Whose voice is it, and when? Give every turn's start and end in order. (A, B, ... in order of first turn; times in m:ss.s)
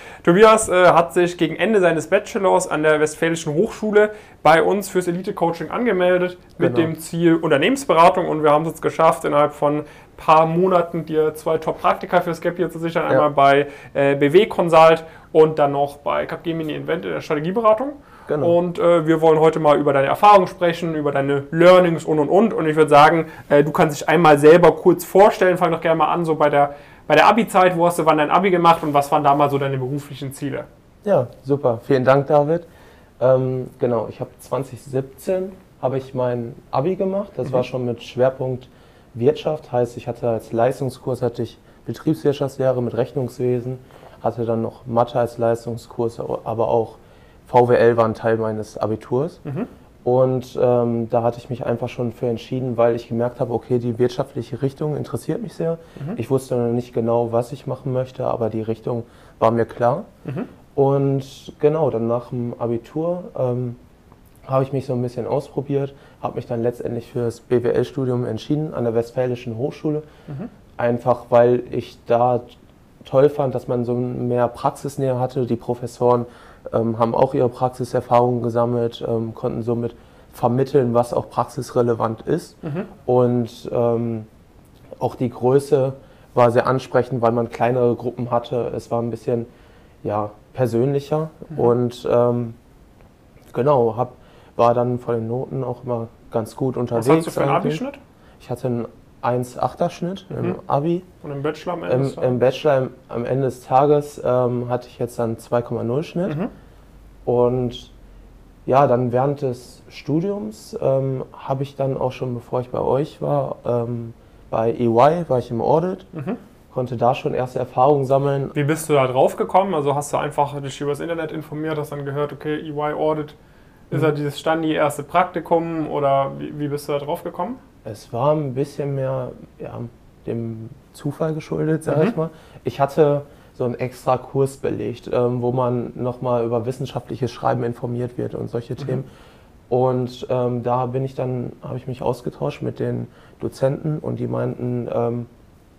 0:00.2-0:30.7 A
0:06.6-0:06.9 B
0:18.3-0:18.5 B
0:31.0-0:32.7 B
0:33.2-0:49.4 B
0:50.0-1:00.1 B
1:00.7-1:03.8 B
1:04.4-1:10.0 B
1:10.8-1:24.3 B
1:22.6-1:22.9 A
1:25.0-1:29.5 B
1:30.0-1:32.6 B
1:33.5-1:37.8 B
1:36.9-1:38.0 A
1:38.4-1:41.0 B
1:41.2-1:42.4 A
1:41.9-1:46.4 B
1:46.3-1:46.5 A
1:47.2-1:47.9 B
1:48.6-1:56.1 B
1:56.1-1:56.4 A
1:56.7-1:58.5 B
1:58.5-2:03.4 A
2:03.9-2:07.6 A
2:07.8-2:19.1 B
2:11.9-2:12.1 A
2:19.7-2:25.3 B